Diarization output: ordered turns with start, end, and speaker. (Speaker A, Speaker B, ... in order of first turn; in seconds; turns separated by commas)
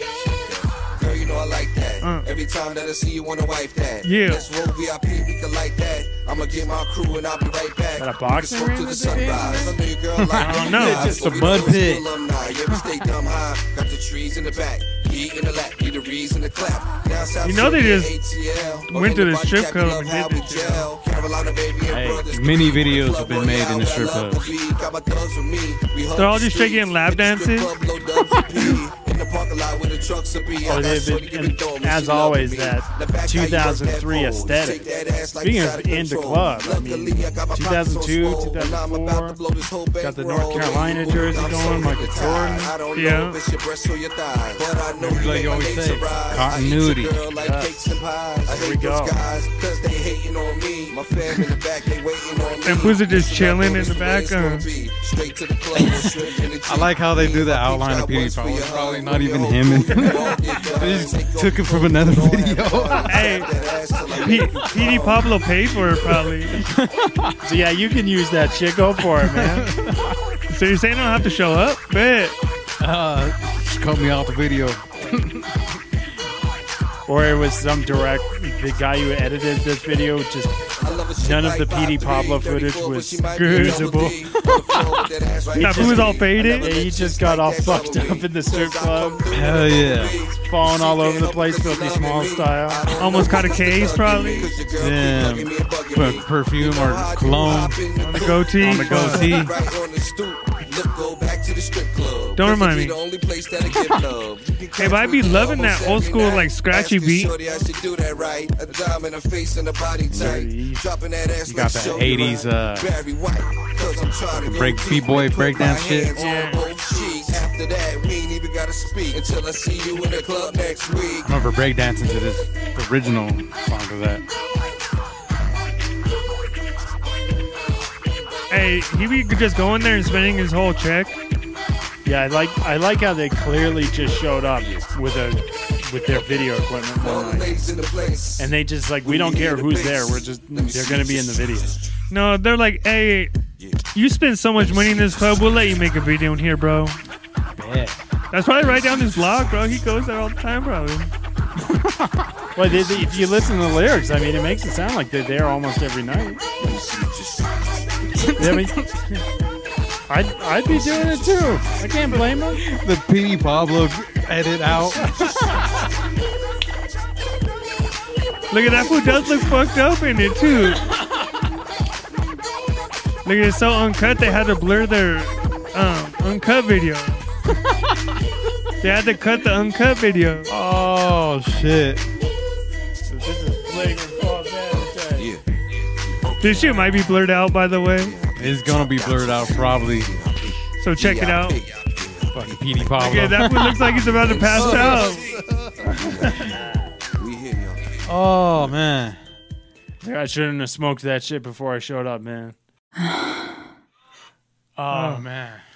Speaker A: 0.1-65.4, Speaker B: 2.0-2.3, Speaker B: 4.0-4.5, Speaker C: 8.0-9.8, Speaker D: 10.2-13.1, Speaker B: 10.4-11.2, Speaker C: 10.4-11.4, Speaker B: 17.4-18.1, Speaker B: 18.9-20.9, Speaker D: 21.9-24.6, Speaker B: 26.2-27.7, Speaker C: 30.6-34.9, Speaker C: 35.4-39.4, Speaker C: 40.0-42.8, Speaker B: 43.0-43.4, Speaker D: 45.0-47.2, Speaker C: 47.4-49.2, Speaker B: 52.6-54.7, Speaker D: 55.8-56.1, Speaker D: 56.6-63.3, Speaker B: 63.1-63.5, Speaker B: 64.2-66.6, Speaker D: 66.5-67.4, Speaker C: 67.4-69.7, Speaker D: 69.0-70.4, Speaker B: 70.5-72.4, Speaker D: 72.8-75.8, Speaker C: 77.1-84.1, Speaker A: 80.8-121.3, Speaker B: 83.3-83.9, Speaker D: 83.5-85.1, Speaker C: 85.5-89.2, Speaker B: 85.6-86.7, Speaker D: 89.3-90.2, Speaker C: 90.3-93.2, Speaker B: 93.0-94.6, Speaker D: 94.7-97.9, Speaker B: 98.0-99.5, Speaker D: 98.5-99.6, Speaker B: 102.4-103.0, Speaker D: 103.7-104.0, Speaker B: 104.8-107.3, Speaker D: 110.1-110.5, Speaker C: 110.1-110.9, Speaker D: 111.5-112.9, Speaker C: 111.8-112.4, Speaker D: 114.2-116.2, Speaker C: 116.2-116.7, Speaker D: 121.2-124.2, Speaker B: 128.5-131.2, Speaker C: 132.0-137.6, Speaker A: 137.0-138.5, Speaker C: 138.4-141.8, Speaker A: 139.0-142.0, Speaker B: 142.1-143.3, Speaker A: 143.6-143.8, Speaker B: 143.9-147.0, Speaker A: 144.7-145.2, Speaker D: 147.5-148.0, Speaker B: 148.3-151.1, Speaker A: 148.7-149.4, Speaker D: 151.6-152.4, Speaker C: 152.6-156.4, Speaker A: 152.7-153.5, Speaker A: 156.6-158.3, Speaker D: 158.1-158.9, Speaker C: 158.4-158.9, Speaker C: 160.1-162.6, Speaker A: 160.7-161.9, Speaker D: 162.1-165.9, Speaker A: 164.7-166.0, Speaker B: 168.5-170.9, Speaker A: 168.7-169.5, Speaker B: 173.2-177.3, Speaker B: 178.8-180.5, Speaker D: 180.5-182.1, Speaker C: 183.1-185.3, Speaker A: 184.7-187.2, Speaker B: 186.4-188.2, Speaker A: 188.0-193.1, Speaker D: 188.4-190.2, Speaker B: 190.8-191.6, Speaker D: 192.3-195.1, Speaker B: 193.0-195.2, Speaker A: 194.1-196.6, Speaker A: 197.1-198.8, Speaker D: 198.0-199.2, Speaker C: 200.0-202.6, Speaker D: 204.8-205.6, Speaker B: 204.9-205.3